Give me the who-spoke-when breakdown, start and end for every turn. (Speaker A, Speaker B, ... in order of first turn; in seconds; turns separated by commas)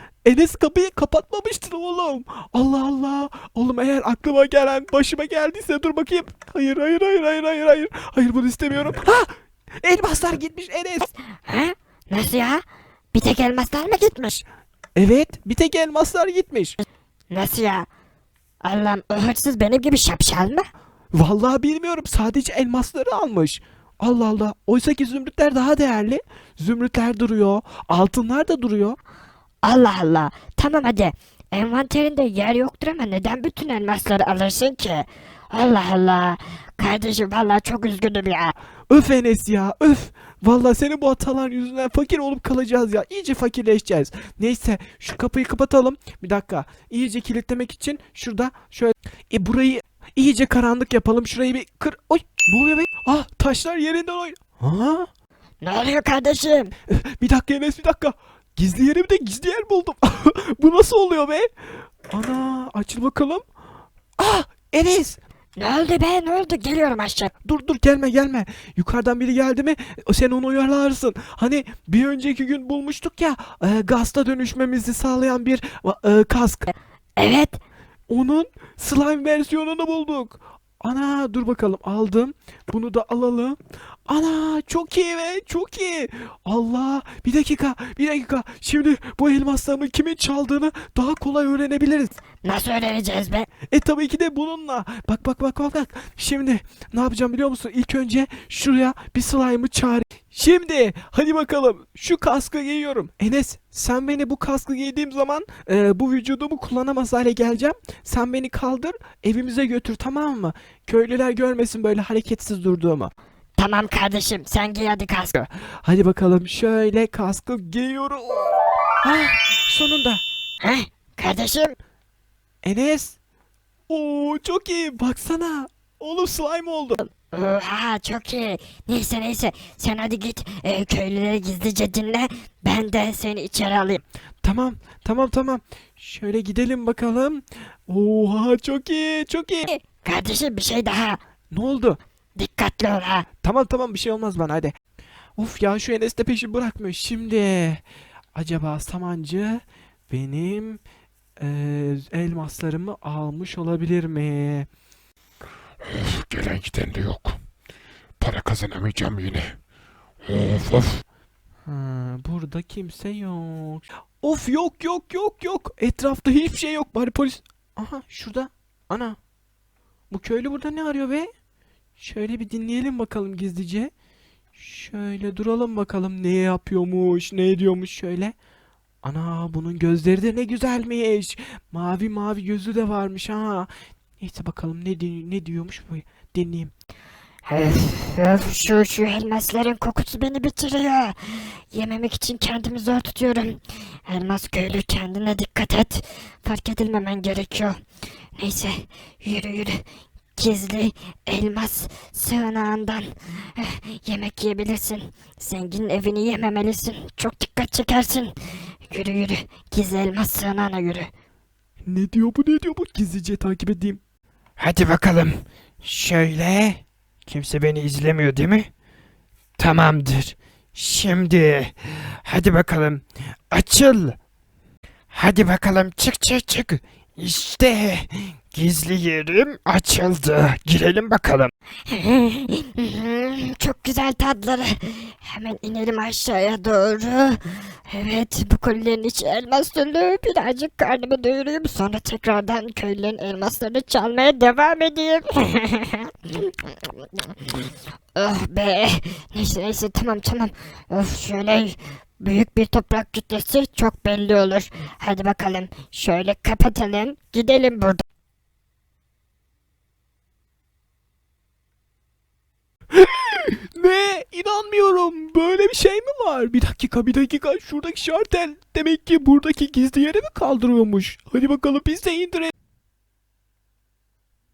Speaker A: 0.2-11.1, Speaker B: 11.4-14.4, Speaker A: 14.9-16.8, Speaker B: 17.3-17.9, Speaker B: 18.6-20.7, Speaker A: 21.1-29.0, Speaker B: 29.6-38.5, Speaker A: 38.9-55.1, Speaker B: 55.6-56.7, Speaker A: 56.9-61.5, Speaker A: 62.1-63.4, Speaker A: 64.2-65.2, Speaker B: 65.5-67.3, Speaker A: 67.4-76.7, Speaker B: 77.2-77.6, Speaker A: 78.1-92.1, Speaker B: 92.4-93.5, Speaker A: 93.7-113.1, Speaker B: 113.6-115.4, Speaker A: 115.4-120.2, Speaker B: 120.6-121.8, Speaker A: 122.6-123.2, Speaker A: 123.9-127.0, Speaker B: 127.2-134.0, Speaker A: 134.4-139.7, Speaker B: 139.7-141.2, Speaker A: 141.5-142.0, Speaker B: 142.4-143.3, Speaker A: 143.4-144.7, Speaker A: 145.4-147.8, Speaker A: 148.3-150.8, Speaker A: 151.4-154.7, Speaker C: 155.8-157.4, Speaker C: 158.2-159.6, Speaker C: 160.2-161.0, Speaker A: 161.7-169.2, Speaker A: 170.1-171.3, Speaker A: 172.0-173.9, Speaker A: 174.5-178.3, Speaker A: 179.0-186.7, Speaker B: 187.4-197.7, Speaker B: 198.3-199.8, Speaker B: 200.3-211.1, Speaker A: 211.8-214.0, Speaker A: 214.6-215.3, Speaker A: 215.8-216.8, Speaker A: 217.3-218.4, Speaker A: 219.6-221.3, Speaker D: 222.2-222.7, Speaker A: 223.5-224.1, Speaker A: 225.1-226.8, Speaker A: 227.4-227.9, Speaker D: 229.0-230.4, Speaker B: 231.9-247.5, Speaker B: 248.1-258.0, Speaker A: 262.9-272.5